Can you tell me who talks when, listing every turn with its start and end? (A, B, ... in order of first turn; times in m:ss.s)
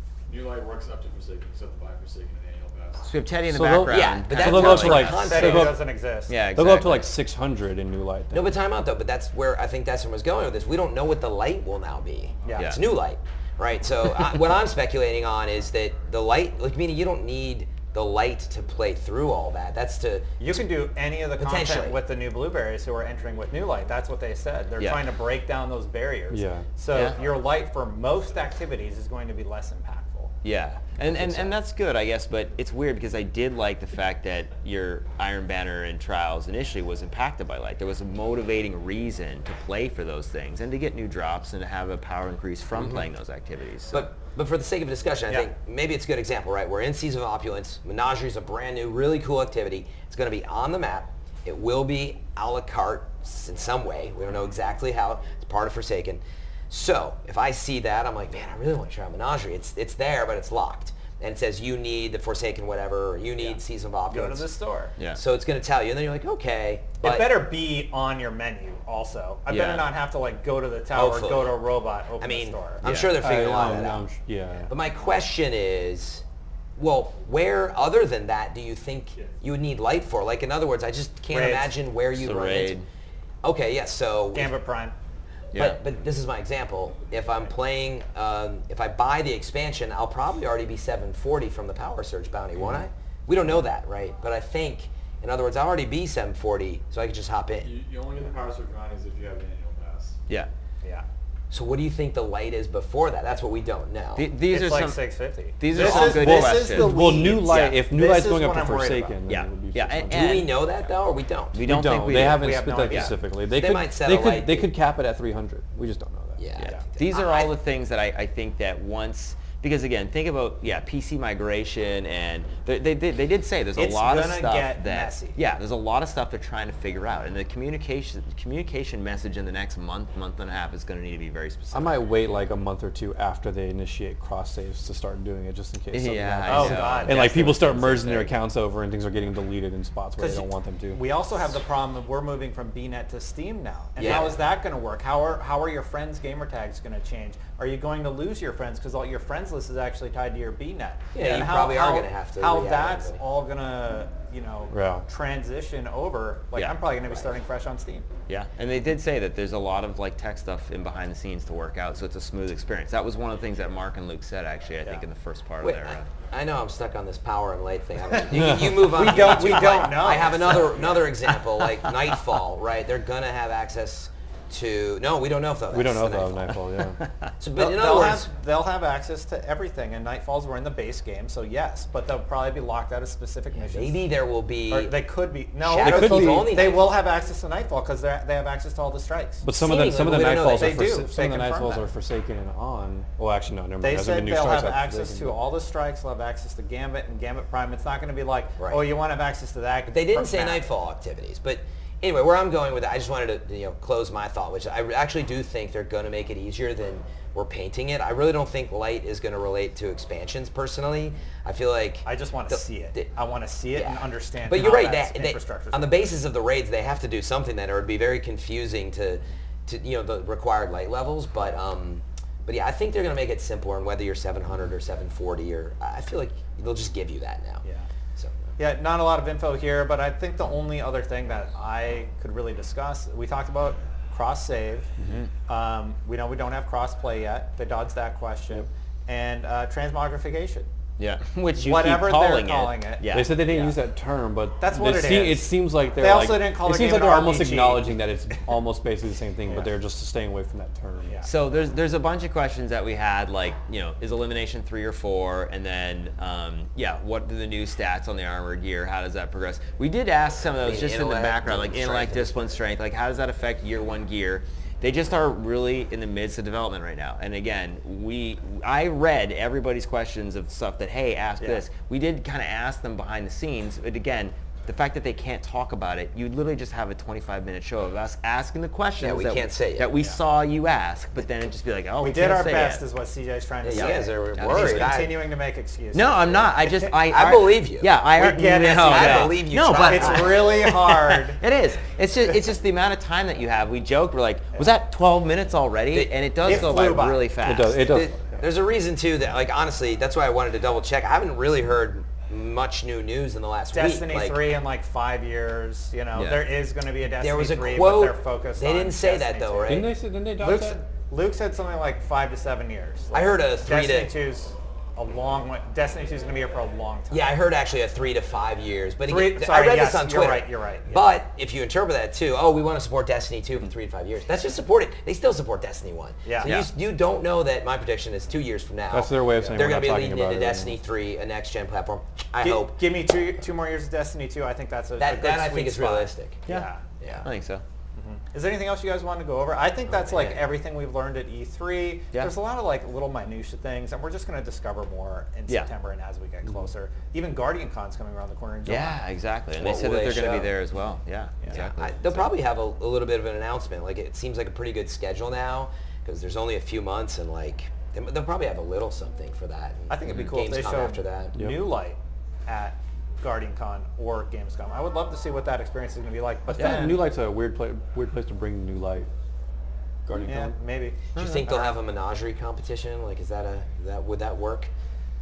0:00.3-0:03.1 A
0:03.0-0:05.6 B
0:03.5-0:05.8 C
0:03.9-0:05.8 D
0:04.7-0:06.4 E
0:06.3-0:07.1 B
0:06.5-0:08.5 C
0:08.3-0:20.4 D
0:12.4-0:12.7 E
0:20.4-0:30.4 E
0:21.4-0:22.0 D
0:26.3-0:26.7 C
0:30.4-0:44.1 B
0:31.2-0:31.5 E
0:43.9-1:04.5 D
1:03.4-1:04.9 E
1:05.1-1:07.4 D
1:07.0-1:12.9 E
1:09.5-1:09.9 B
1:10.9-1:11.6 D
1:12.2-1:14.1 D
1:12.8-1:13.2 B
1:13.1-1:14.7 C
1:14.7-1:16.2 D
1:16.8-1:22.8 D
1:21.3-1:21.7 E
1:22.1-1:22.9 B
1:23.4-1:24.5 D
1:24.3-1:25.0 E
1:25.5-1:37.7 D
1:37.6-1:40.2 A
1:41.5-1:44.3 D
1:44.2-1:47.7 B
1:44.5-1:49.2 E
1:45.8-1:50.5 C
1:49.3-1:50.5 B
1:50.1-1:51.6 D
1:51.5-1:53.1 B
1:51.6-1:56.4 C
1:52.1-1:53.1 E
1:53.5-1:54.7 D
1:56.4-1:57.5 D
1:56.6-2:12.0 B
2:03.8-2:05.4 E
2:11.7-2:21.0 C
2:15.9-2:18.3 B
2:16.5-2:17.7 E
2:20.2-2:38.1 E
2:24.0-2:24.4 D
2:24.0-2:24.3 B
2:31.1-2:33.2 D
2:34.7-2:35.0 C
2:38.3-2:46.1 B
2:45.6-2:56.6 D
2:48.3-2:48.8 C
2:48.8-2:51.4 E
2:49.1-2:49.9 B
2:55.7-2:57.0 C
2:57.4-2:58.3 D
2:57.6-3:04.1 E
3:03.6-3:05.0 D
3:04.7-3:09.4 E
3:05.6-3:07.0 D
3:05.8-3:06.6 C
3:09.4-3:15.4 C
3:09.5-3:10.8 D
3:10.3-3:11.9 E
3:13.8-3:20.7 E
3:18.6-3:18.8 D
3:19.9-3:33.1 D
3:32.1-3:36.0 E
3:33.7-3:47.6 D
3:48.2-3:48.6 D
3:48.6-3:54.9 E
3:55.5-4:00.7 E
4:01.0-4:03.5 B
4:01.6-4:03.2 E
4:03.1-4:11.2 C
4:04.6-4:08.0 E
4:11.2-4:42.8 B
4:20.6-4:22.6 D
4:39.0-4:39.9 D
4:42.0-4:47.0 E
4:43.6-4:45.1 D
4:43.7-4:45.0 B
4:45.9-4:57.9 B
4:47.1-4:47.9 D
4:48.1-4:51.4 E
4:48.8-4:50.6 D
4:56.4-4:57.3 E
4:57.4-4:58.4 C
4:57.9-5:04.4 D
5:03.7-5:17.3 E
5:06.1-5:06.4 B
5:07.2-5:09.9 D
5:09.7-5:10.8 C
5:13.1-5:14.1 D
5:17.1-5:32.8 D
5:19.1-5:21.1 E
5:26.2-5:26.6 E
5:28.9-5:30.8 C
5:32.4-5:37.3 E
5:35.0-5:36.5 D
5:37.0-5:37.3 D
5:37.2-5:37.6 B
5:38.0-5:49.0 E
5:39.9-5:40.4 D
5:48.6-5:52.3 B
5:49.6-5:50.5 D
5:51.5-6:01.4 D
5:59.9-6:07.0 E
6:01.4-6:01.7 C
6:06.5-6:09.1 C
6:06.6-6:06.8 B
6:10.1-6:10.6 C
6:10.2-6:11.8 E
6:11.1-6:14.7 D
6:11.2-6:11.4 B